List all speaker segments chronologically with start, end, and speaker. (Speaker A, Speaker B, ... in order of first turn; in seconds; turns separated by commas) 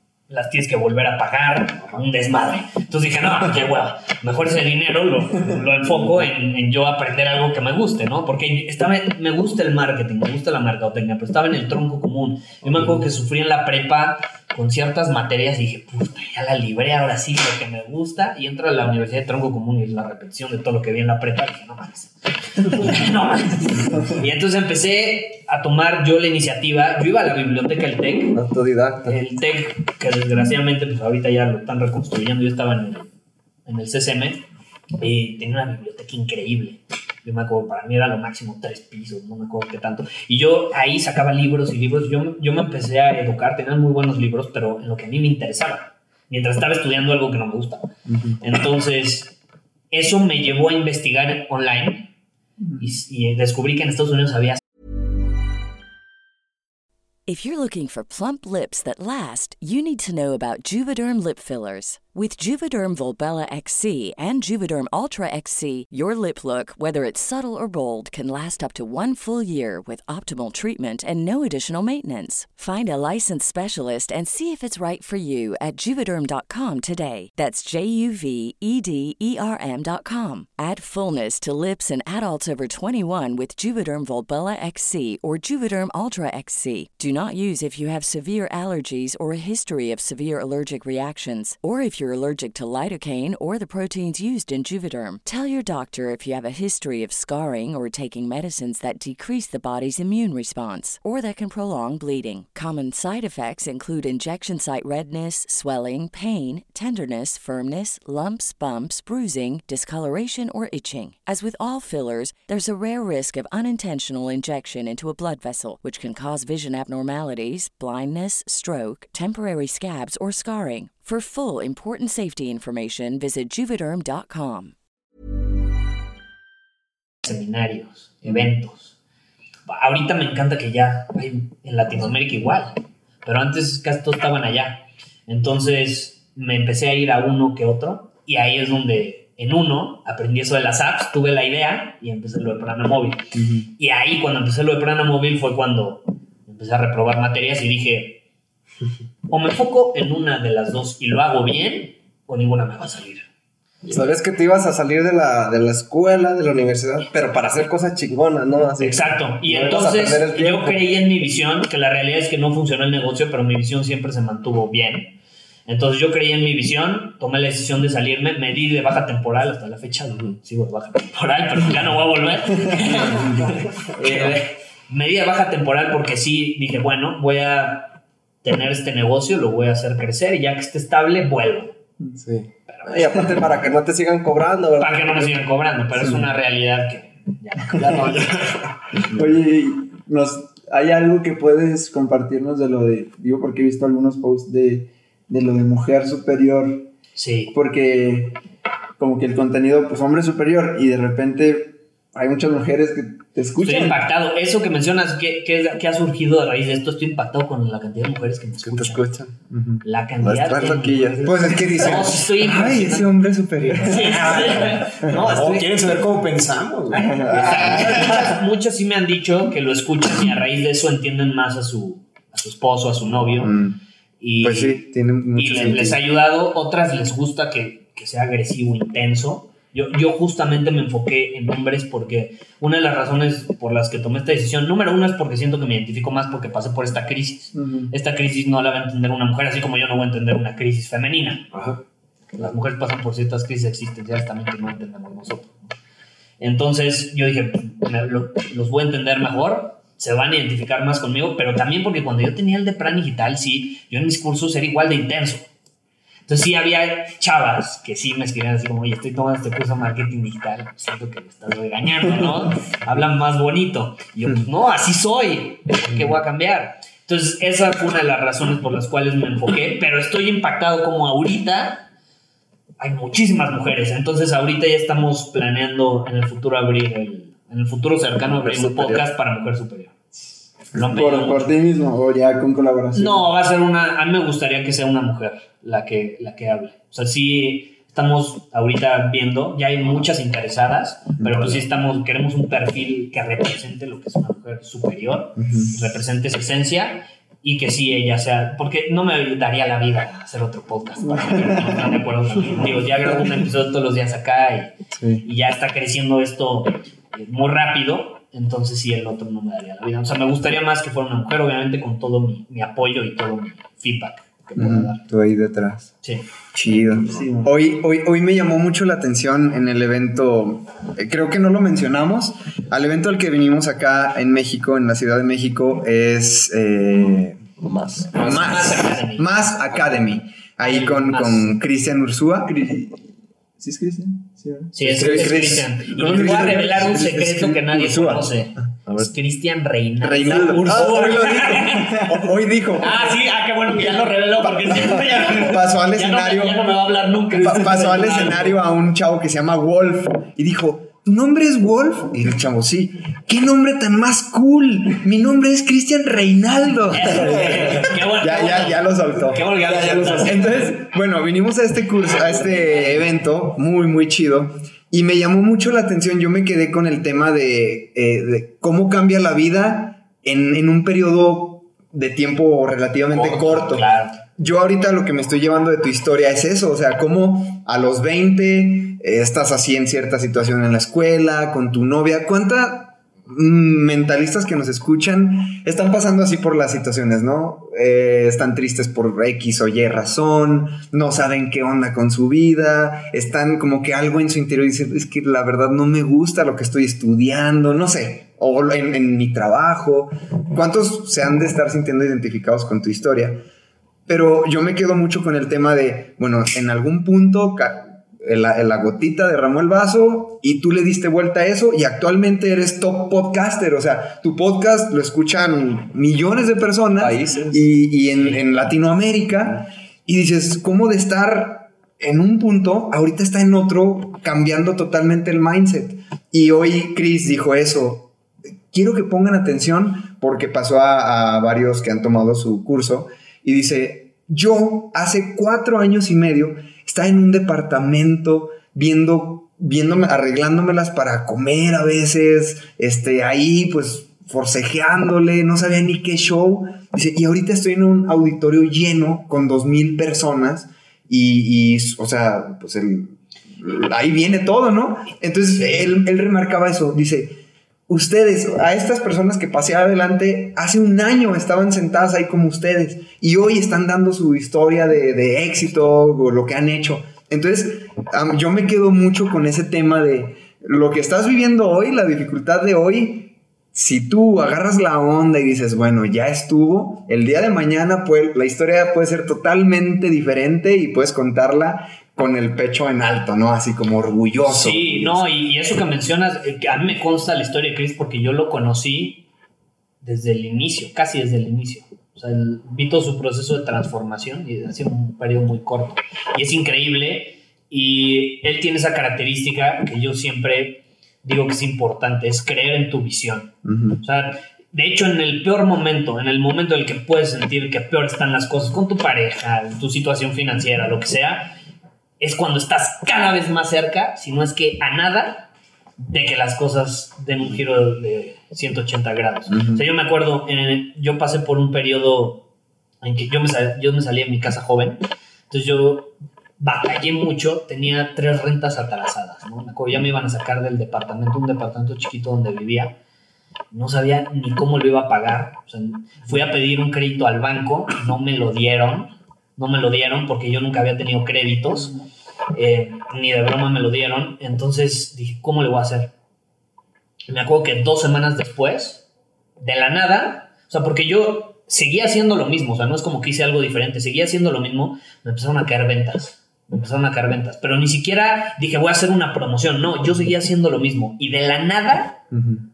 Speaker A: 0.3-28.4, Speaker B: 28.3-29.2, Speaker A: 29.0-33.1, Speaker A: 33.6-34.4, Speaker A: 35.0-49.3, Speaker C: 48.1-48.3, Speaker A: 49.9-52.1, Speaker C: 52.6-52.9, Speaker A: 52.8-54.6, Speaker D: 57.3-124.7, Speaker A: 127.2-128.9, Speaker A: 129.7-148.2, Speaker C: 143.3-143.6, Speaker A: 149.3-153.3, Speaker B: 153.9-160.8, Speaker A: 158.8-181.7, Speaker B: 182.2-185.4, Speaker A: 182.7-183.2, Speaker C: 183.2-183.7, Speaker A: 184.8-188.6, Speaker C: 189.1-196.9, Speaker A: 197.1-197.5, Speaker C: 197.5-198.4, Speaker C: 199.0-204.0, Speaker A: 203.6-209.0, Speaker B: 208.6-209.4, Speaker A: 209.8-213.2, Speaker B: 210.2-211.7, Speaker E: 211.2-214.5, Speaker A: 213.7-215.7, Speaker F: 214.3-218.4, Speaker A: 216.9-223.5, Speaker E: 217.0-217.8, Speaker E: 223.4-223.8, Speaker A: 224.2-224.8, Speaker E: 224.4-226.0, Speaker A: 225.3-241.5, Speaker C: 237.5-237.9, Speaker F: 241.5-241.8, Speaker A: 242.4-245.6, Speaker A: 246.4-255.5, Speaker A: 256.3-271.9, Speaker A: 272.8-279.9, Speaker B: 278.4-279.0, Speaker A: 280.7-281.5, Speaker C: 280.7-283.3, Speaker A: 282.9-304.7, Speaker E: 295.4-295.7, Speaker E: 304.9-305.2, Speaker A: 305.2-315.0, Speaker E: 314.6-315.9, Speaker E: 316.5-327.4, Speaker C: 317.0-317.5, Speaker B: 327.5-328.1, Speaker A: 328.1-329.8, Speaker E: 328.1-332.5, Speaker A: 330.6-331.6, Speaker C: 332.4-333.0, Speaker C: 333.6-336.6, Speaker A: 334.7-348.6, Speaker E: 334.8-338.7, Speaker B: 338.9-339.1, Speaker E: 340.0-343.1, Speaker E: 344.4-346.7, Speaker E: 347.3-403.4, Speaker A: 356.9-360.8, Speaker F: 359.6-360.5, Speaker A: 362.5-362.9, Speaker A: 373.1-374.2, Speaker E: 404.1-428.1, Speaker B: 417.2-417.5, Speaker A: 418.1-418.4, Speaker E: 428.7-485.2, Speaker A: 455.6-455.9, Speaker A: 484.4-489.2, Speaker A: 490.0-511.5, Speaker E: 503.6-504.0, Speaker A: 512.2-522.4, Speaker E: 519.5-519.8, Speaker A: 523.0-533.0, Speaker A: 533.7-541.9, Speaker A: 542.5-546.1, Speaker A: 547.3-549.0, Speaker A: 549.6-562.2, Speaker E: 562.3-562.6